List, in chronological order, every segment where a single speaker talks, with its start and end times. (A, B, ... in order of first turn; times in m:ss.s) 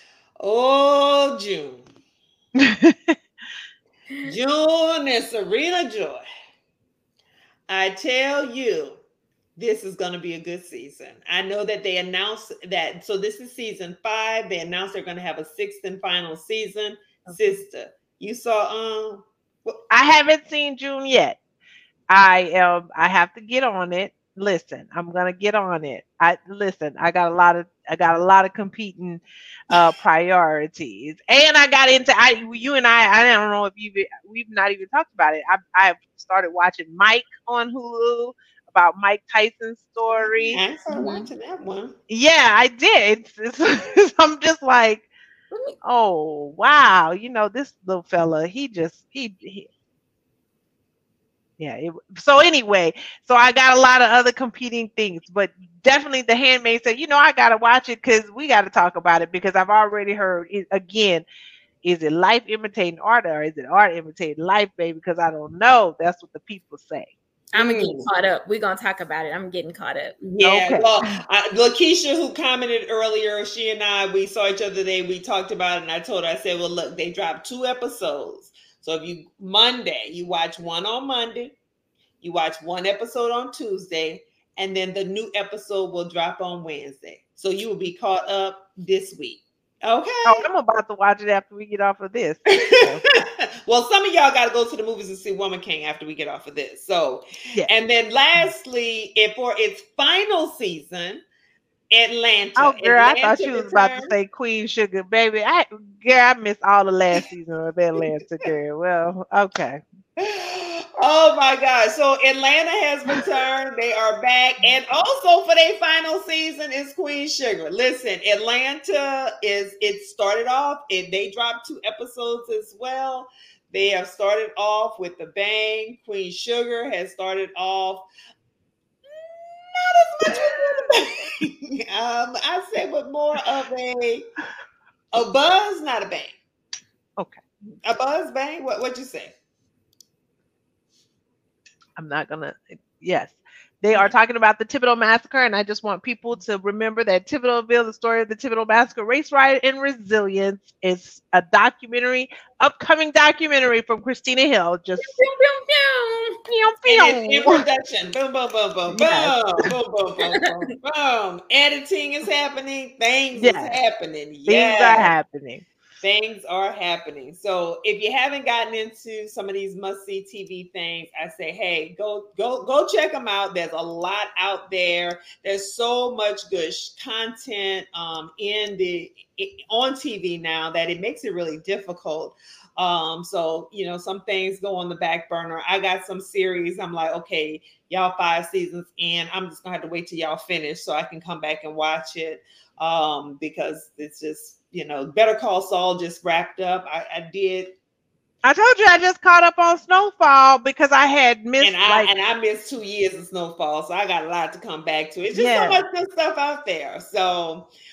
0:00.4-0:01.9 A
0:02.6-0:03.2 B
0:04.2-0:06.2 A
0:07.7-0:09.0 A
0:09.6-0:19.8 A
0:19.9-0:21.4 B
0:22.1-0:40.6 B
0:40.5-0:41.9 A
0:40.9-0:41.3 C
0:42.1-0:45.1 B
0:45.8-0:49.7 B
0:51.6-1:01.3 B
1:01.8-1:07.1 B
1:07.5-1:08.1 A
1:07.5-1:10.2 C
1:10.3-1:21.6 A
1:10.4-1:10.9 B
1:22.2-1:30.4 A
1:30.2-1:33.0 B
1:32.5-1:41.2 A
1:41.9-1:44.1 A
1:42.6-1:49.8 B
1:50.2-2:08.1 A
2:09.1-2:14.2 A
2:10.2-2:10.9 B
2:15.1-2:16.4 A
2:17.2-2:17.4 B
2:17.8-2:19.3 A
2:22.0-2:35.2 B
2:35.0-2:36.6 C
2:36.6-2:37.6 B
2:36.9-2:45.1 A
2:38.9-2:39.7 B
2:43.3-2:43.8 B
2:44.5-2:45.6 B
2:46.0-3:17.8 A
3:18.4-3:22.1 B
3:21.6-3:27.7 A
3:25.3-3:25.8 B